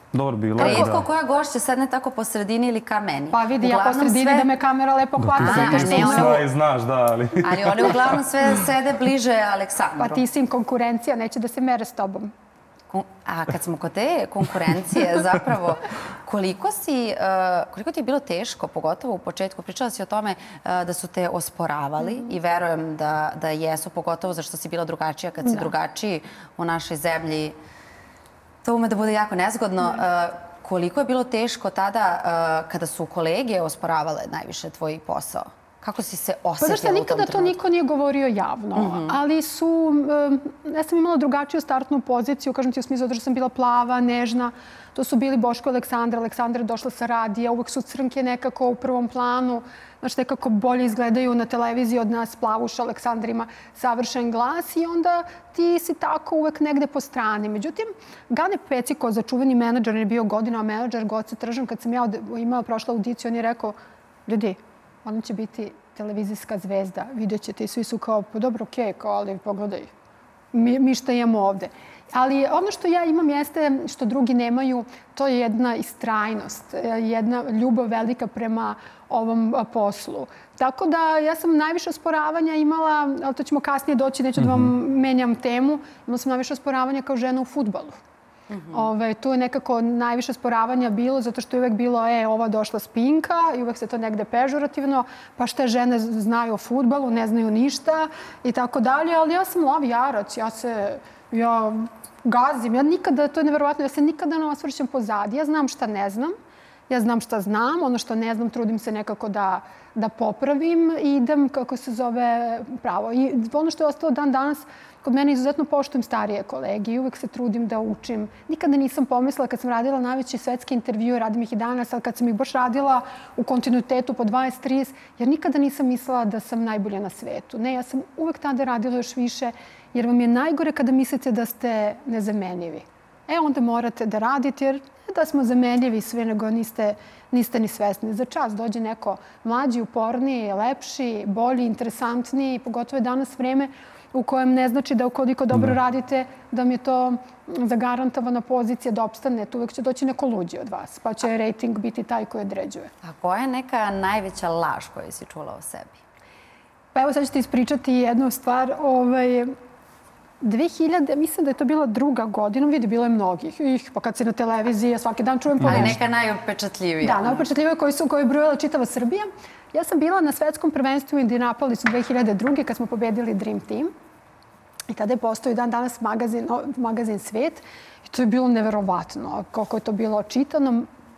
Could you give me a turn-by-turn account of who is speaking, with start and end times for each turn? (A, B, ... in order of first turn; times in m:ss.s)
0:00.1-0:01.1 A
0:00.6-0:01.0 B
0:00.6-0:04.5 C
0:03.3-0:06.4 B
0:05.2-0:08.2 A
0:05.4-0:06.4 C
0:07.4-0:10.2 C
0:10.0-0:12.3 B
0:12.9-0:27.6 C
0:28.6-0:37.6 C
0:36.6-1:03.8 B
0:38.8-0:39.2 C
1:04.3-1:09.9 B
1:10.5-1:28.0 B
1:24.4-1:24.7 A
1:28.5-1:28.9 C
1:28.7-1:46.4 B
1:46.9-2:32.9 B
2:33.0-2:36.0 C
2:36.9-2:39.5 B
2:40.4-2:46.0 B
2:45.6-2:45.9 A
2:45.6-2:47.4 C
2:47.0-2:53.9 B
2:54.9-3:00.9 B